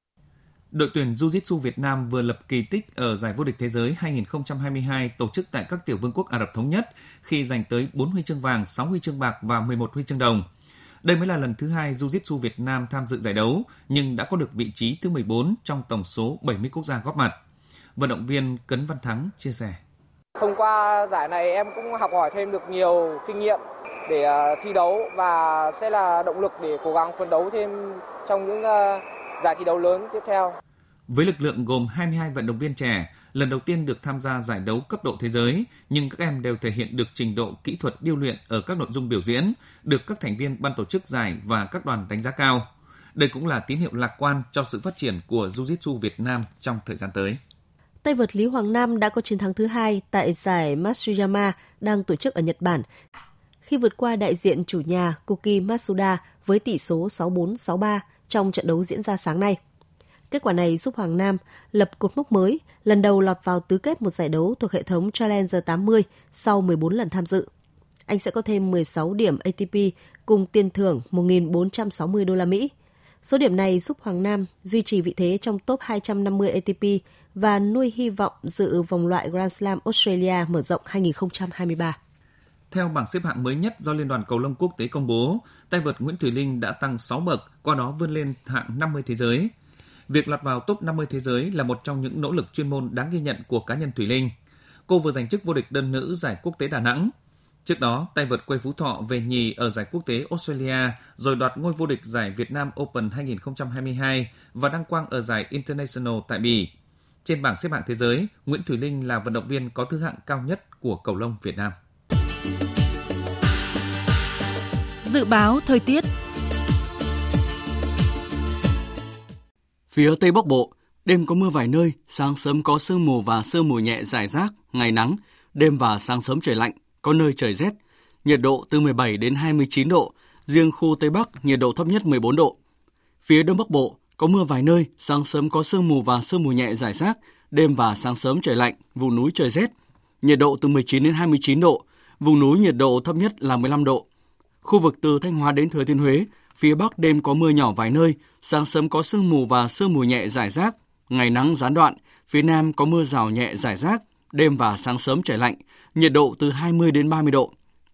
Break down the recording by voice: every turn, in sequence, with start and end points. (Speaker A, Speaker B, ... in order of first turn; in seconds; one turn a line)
Speaker A: 0.7-10.5
Speaker A: 11.0-17.4
Speaker A: 17.9-19.8
Speaker B: 20.4-30.5
Speaker A: 31.1-47.4
Speaker C: 48.0-52.9
Speaker C: 53.6-59.6
Speaker C: 60.3-67.5
Speaker C: 68.1-72.7
Speaker C: 73.2-82.0
Speaker A: 82.7-89.5
Speaker A: 90.1-94.3
Speaker A: 94.9-97.1
Speaker A: 97.6-106.7
Speaker A: 107.2-111.8
Speaker C: 115.0-116.0
Speaker D: 119.9-132.6
Speaker D: 133.2-144.1
Speaker D: 144.6-157.5